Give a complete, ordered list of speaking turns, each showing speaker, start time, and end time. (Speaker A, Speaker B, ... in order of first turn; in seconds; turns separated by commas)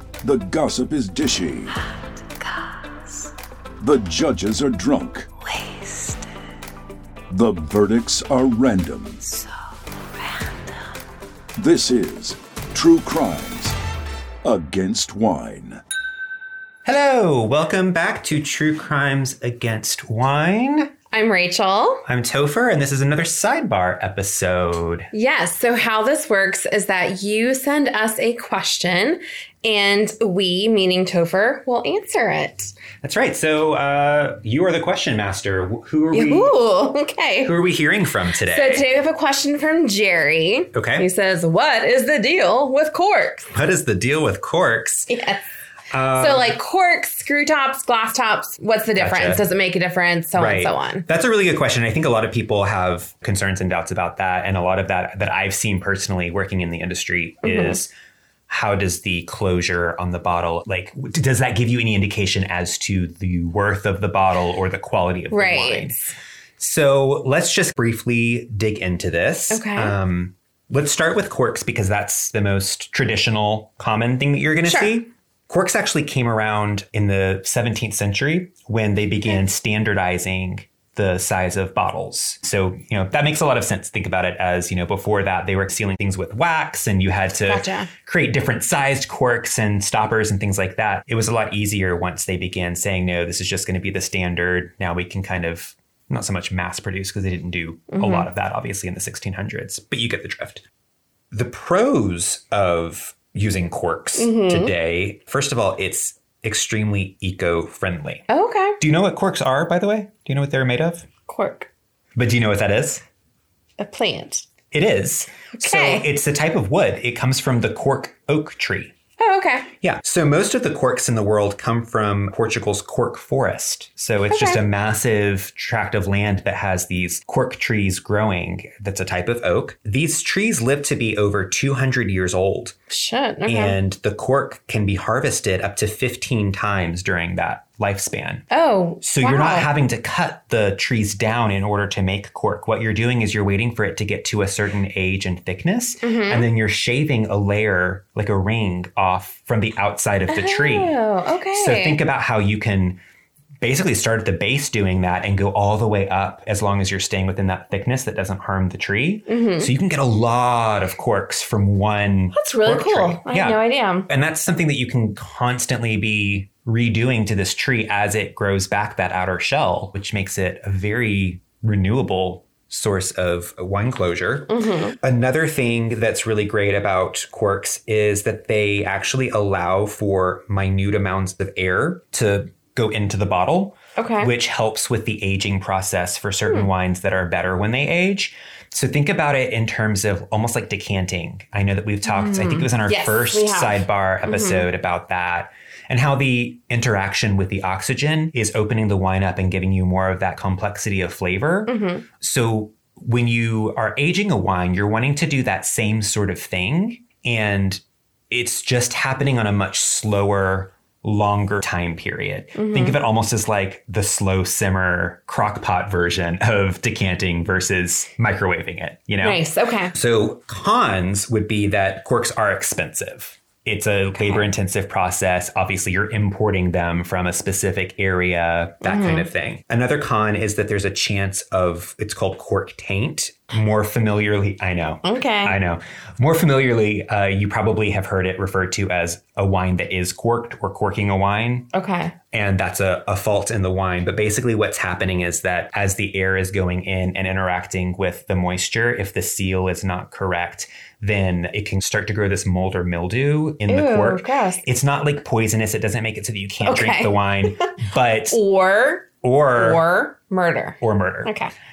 Speaker A: 0.2-1.8, Speaker A: 3.8-5.3, Speaker A: 7.3-9.3, Speaker A: 11.6-13.8, Speaker A: 14.4-15.8, Speaker B: 16.8-20.9, Speaker C: 21.1-22.0, Speaker B: 22.1-25.1, Speaker C: 25.1-32.7, Speaker B: 33.0-36.5, Speaker C: 36.1-37.5, Speaker B: 37.4-38.9, Speaker C: 38.4-43.5, Speaker B: 40.7-41.1, Speaker B: 43.5-45.1, Speaker C: 45.1-45.4, Speaker B: 45.9-46.5, Speaker C: 46.1-51.0, Speaker B: 49.0-49.4, Speaker B: 50.3-57.9, Speaker C: 57.4-57.8, Speaker B: 58.5-66.0, Speaker C: 65.3-66.1, Speaker B: 66.6-100.6, Speaker C: 69.5-69.9, Speaker C: 74.6-74.9, Speaker C: 87.4-87.9, Speaker C: 97.9-98.3, Speaker B: 101.3-108.2, Speaker C: 104.2-104.7, Speaker C: 108.3-108.8, Speaker B: 108.8-111.1, Speaker C: 111.3-111.7, Speaker B: 112.2-113.0, Speaker C: 113.8-114.4, Speaker B: 114.7-118.9, Speaker C: 115.5-116.0, Speaker C: 119.2-119.7, Speaker B: 119.8-132.7, Speaker C: 124.3-124.6, Speaker C: 132.9-133.8, Speaker B: 133.4-138.4, Speaker C: 138.5-139.7, Speaker B: 139.0-150.9, Speaker C: 146.0-146.5, Speaker C: 150.3-152.0, Speaker B: 151.5-153.0, Speaker B: 153.6-241.7, Speaker C: 159.3-159.7, Speaker C: 162.3-164.1, Speaker C: 174.5-175.0, Speaker C: 184.0-184.3, Speaker C: 192.1-194.7, Speaker C: 201.7-202.0, Speaker C: 212.6-213.0, Speaker C: 219.2-219.9, Speaker C: 224.1-224.5, Speaker C: 228.8-229.3, Speaker C: 235.0-235.6, Speaker C: 241.7-242.1, Speaker B: 242.3-258.4, Speaker C: 253.7-254.6, Speaker C: 256.6-257.5, Speaker C: 258.3-261.5, Speaker B: 259.2-259.8, Speaker B: 260.8-261.3